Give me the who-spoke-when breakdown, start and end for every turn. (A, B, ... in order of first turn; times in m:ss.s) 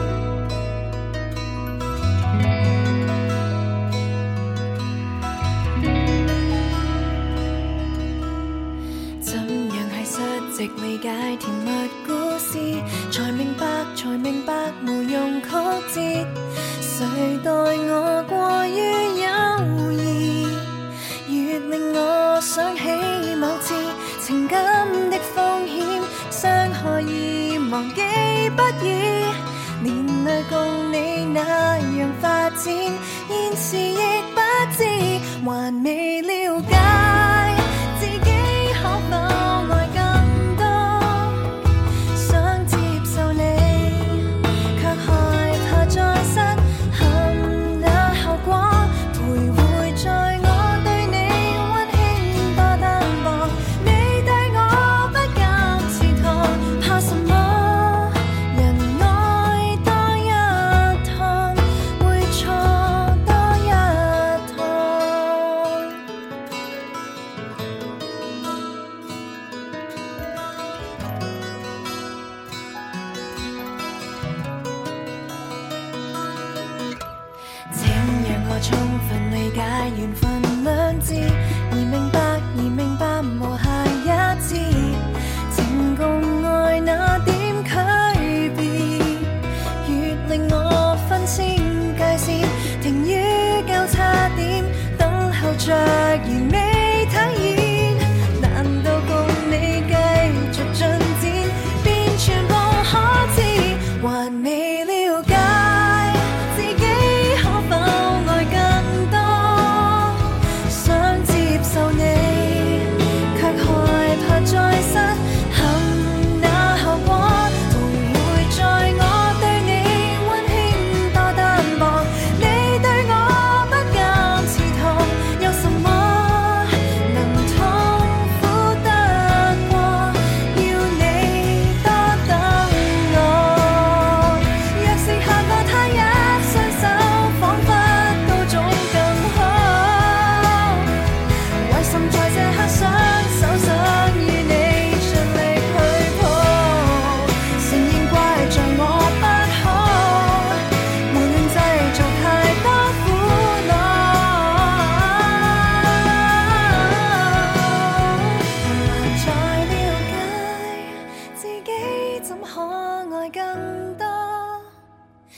0:09.2-0:41.5 A
0:42.1-1:05.9 A
1:17.7-2:20.9 A
2:21.6-2:44.7 A